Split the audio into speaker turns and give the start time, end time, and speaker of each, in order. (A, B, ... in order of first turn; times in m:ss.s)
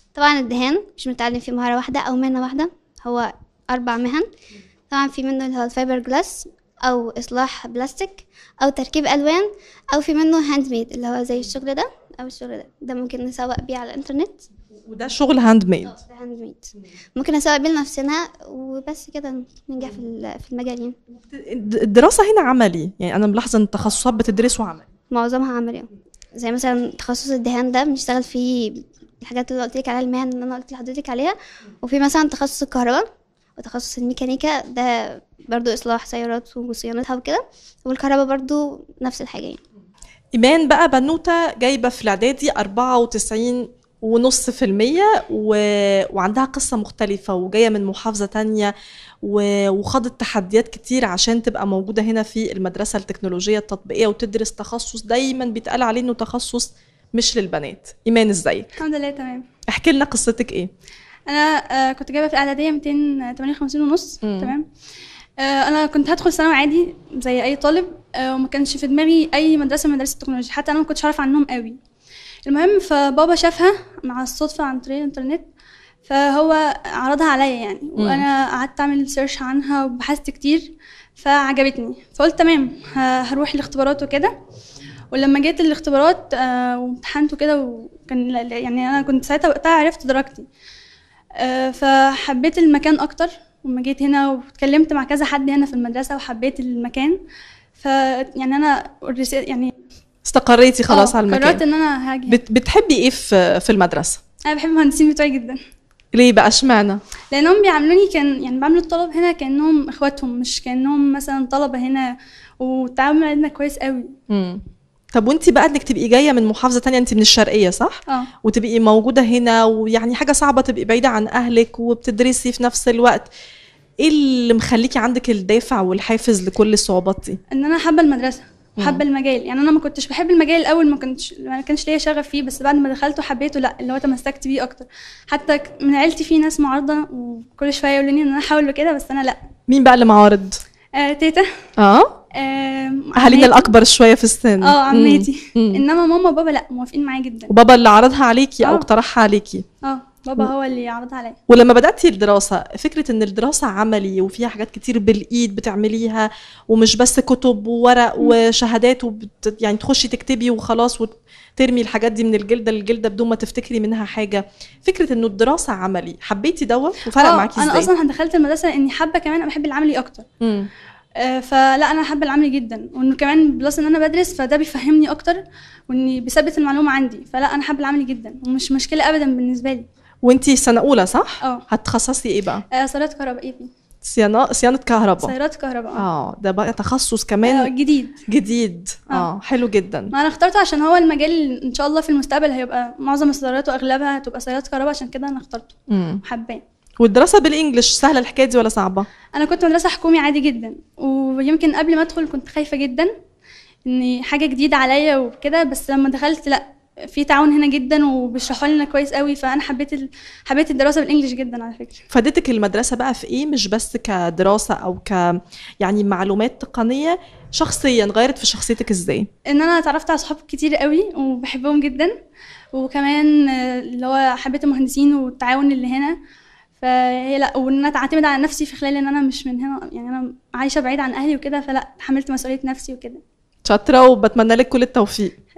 0:00.2-0:04.2 A
0:04.9-0:14.4 A
0:14.9-0:15.9 B
0:15.9-0:20.9 A
0:21.3-0:24.9 B
0:25.1-0:33.0 A
0:33.6-0:39.6 A
0:40.3-0:48.7 B
0:49.2-0:58.7 B
0:58.8-0:59.4 C
0:59.7-1:00.7 B
1:01.3-1:04.7 C
1:04.2-1:04.5 B
1:05.4-1:11.8 C
1:12.4-1:15.5 C
1:16.0-1:24.3 C
1:18.0-1:18.2 B
1:25.1-1:30.4 C
1:31.4-1:37.2 C
1:37.8-1:39.7 C
1:40.2-1:41.6 B
1:40.9-1:42.4 C
1:42.3-1:44.2 B
1:44.4-1:45.6 C
1:46.1-1:47.0 B
1:47.3-1:54.1 C
1:54.3-2:03.3 B
2:04.0-2:07.4 B
2:07.5-2:19.4 C
2:08.8-2:09.0 B
2:19.7-2:20.6 B
2:21.0-2:21.4 C
2:21.8-2:22.1 B
2:22.3-2:23.8 C
2:23.2-2:25.8 B
2:24.6-2:27.5 C
2:27.5-2:29.6 B
2:29.8-2:31.4 C
2:31.5-2:47.9 B
2:47.1-2:50.2 C
2:50.4-2:50.7 B
2:51.2-2:59.8 C
3:00.2-3:02.6 B
3:02.7-3:03.7 C
3:04.0-3:05.3 B
3:05.2-3:06.0 C
3:06.0-3:07.7 B
3:07.4-3:08.2 C
3:08.3-3:10.1 B
3:10.1-3:16.6 C
3:15.9-3:16.2 B
3:17.0-3:19.0 B
3:19.3-3:23.1 C
3:23.8-3:32.0 C
3:32.1-3:39.3 B
3:39.5-3:42.1 C
3:42.7-3:46.2 C
3:46.8-3:53.2 C
3:53.6-3:55.3 B